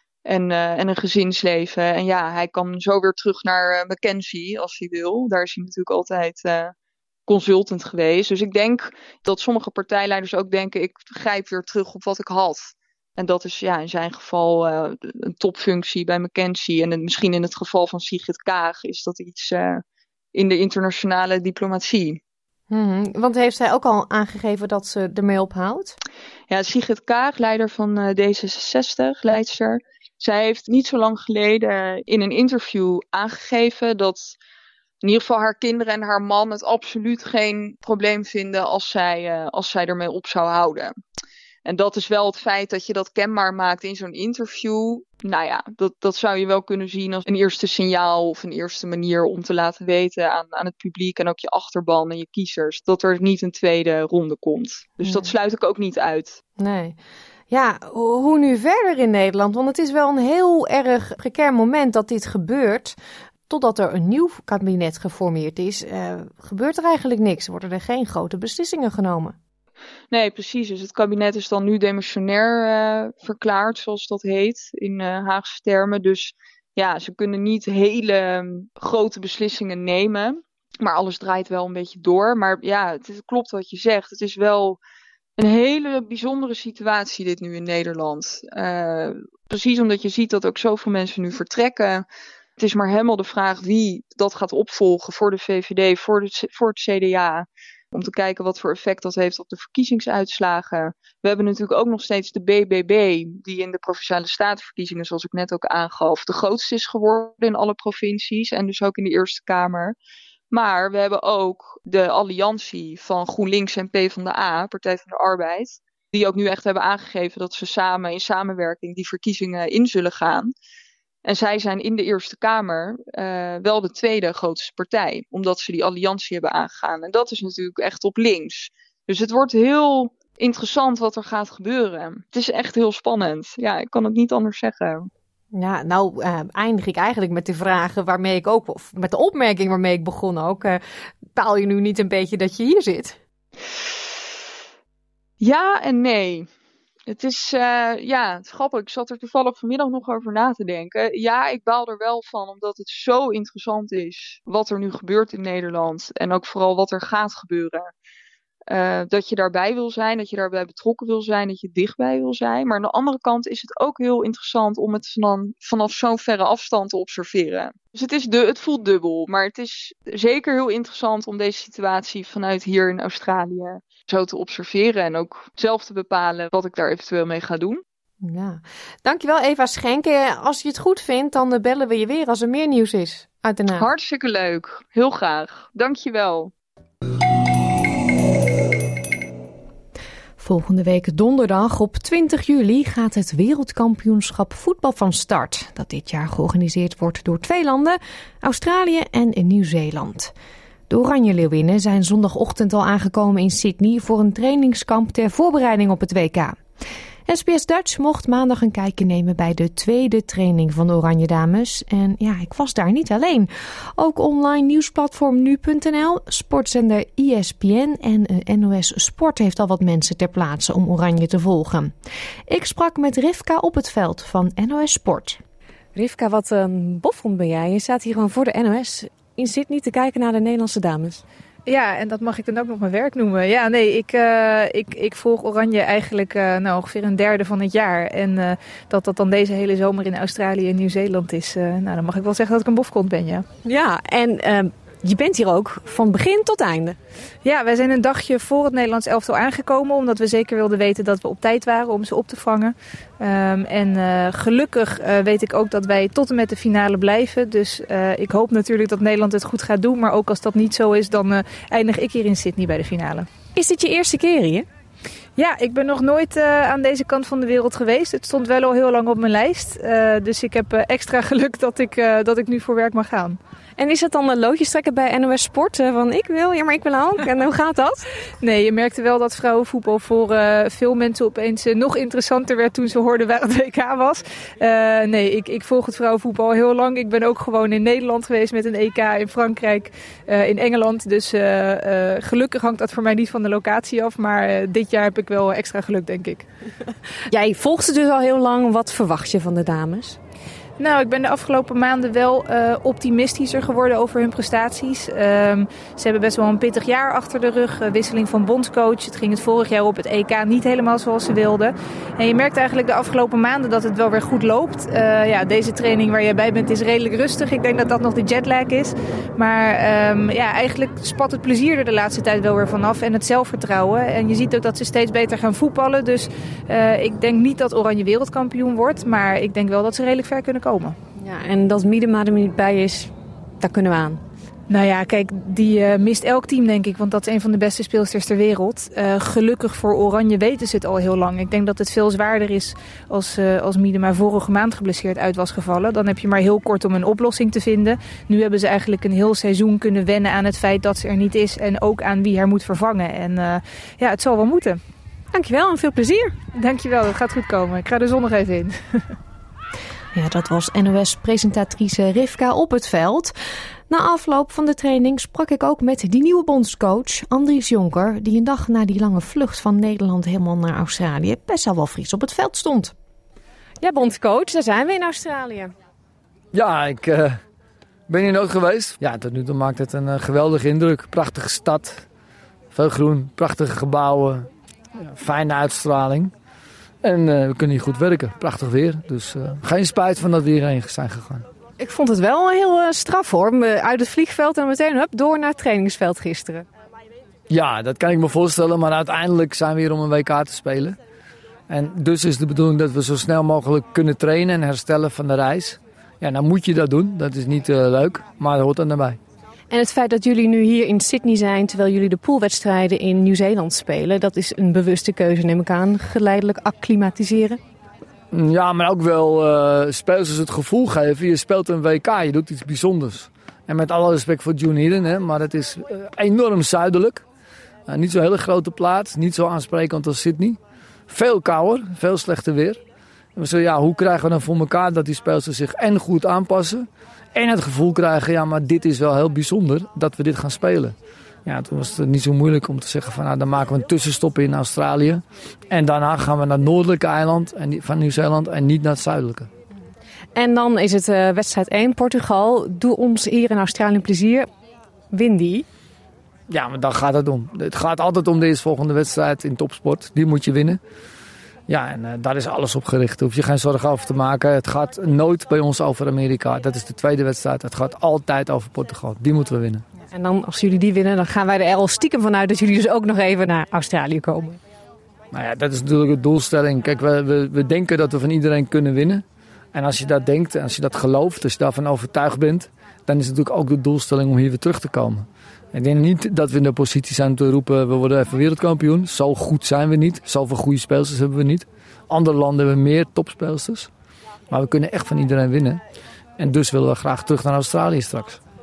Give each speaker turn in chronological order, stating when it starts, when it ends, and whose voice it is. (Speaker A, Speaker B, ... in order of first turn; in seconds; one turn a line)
Speaker A: 0.2-6.7
Speaker A: 7.3-19.8
Speaker A: 20.3-22.2
Speaker B: 22.7-25.9
Speaker A: 26.5-34.4
Speaker A: 35.0-41.0
Speaker A: 41.6-56.4
Speaker B: 55.0-55.3
Speaker B: 56.6-57.0
Speaker B: 57.5-69.4
Speaker A: 70.1-84.8
Speaker A: 85.4-92.0
Speaker A: 92.6-110.0
Speaker A: 110.5-120.5
Speaker A: 121.2-135.1
Speaker B: 135.5-140.8
Speaker B: 141.3-143.2
Speaker A: 145.4-146.5
Speaker A: 147.1-157.9
Speaker A: 158.7-177.8
Speaker B: 178.2-183.9
Speaker A: 183.7-186.5
Speaker B: 190.4-200.3
Speaker B: 200.9-206.6
Speaker B: 207.2-221.9
Speaker B: 222.5-225.4
Speaker B: 225.9-231.2
Speaker C: 231.7-243.4
Speaker B: 243.6-247.0
Speaker C: 247.4-263.3
Speaker B: 263.5-264.7
Speaker C: 265.4-273.4
Speaker B: 273.8-278.1
Speaker C: 278.4-296.4
Speaker B: 297.3-300.2
Speaker C: 300.8-330.9
Speaker B: 331.2-334.2
Speaker C: 334.7-354.8
Speaker B: 355.3-356.3
Speaker C: 356.5-359.0
Speaker B: 360.1-363.3
Speaker B: 363.9-372.9
Speaker B: 373.8-375.7
Speaker D: 376.5-377.4
Speaker D: 378.1-382.1
Speaker D: 382.7-384.5
Speaker D: 385.0-386.3
Speaker D: 387.0-391.4
Speaker B: 391.8-396.6
Speaker D: 397.5-401.0
Speaker D: 401.7-409.2
Speaker B: 409.7-417.6
Speaker D: 418.3-427.2
Speaker D: 427.9-432.8
Speaker D: 433.4-440.9
Speaker D: 441.4-449.5
Speaker B: 450.4-454.5
Speaker B: 455.1-455.6
Speaker D: 456.5-460.8
Speaker D: 461.7-469.8
Speaker B: 470.1-474.6
Speaker D: 475.3-493.9
Speaker D: 494.5-495.8
Speaker D: 496.4-498.4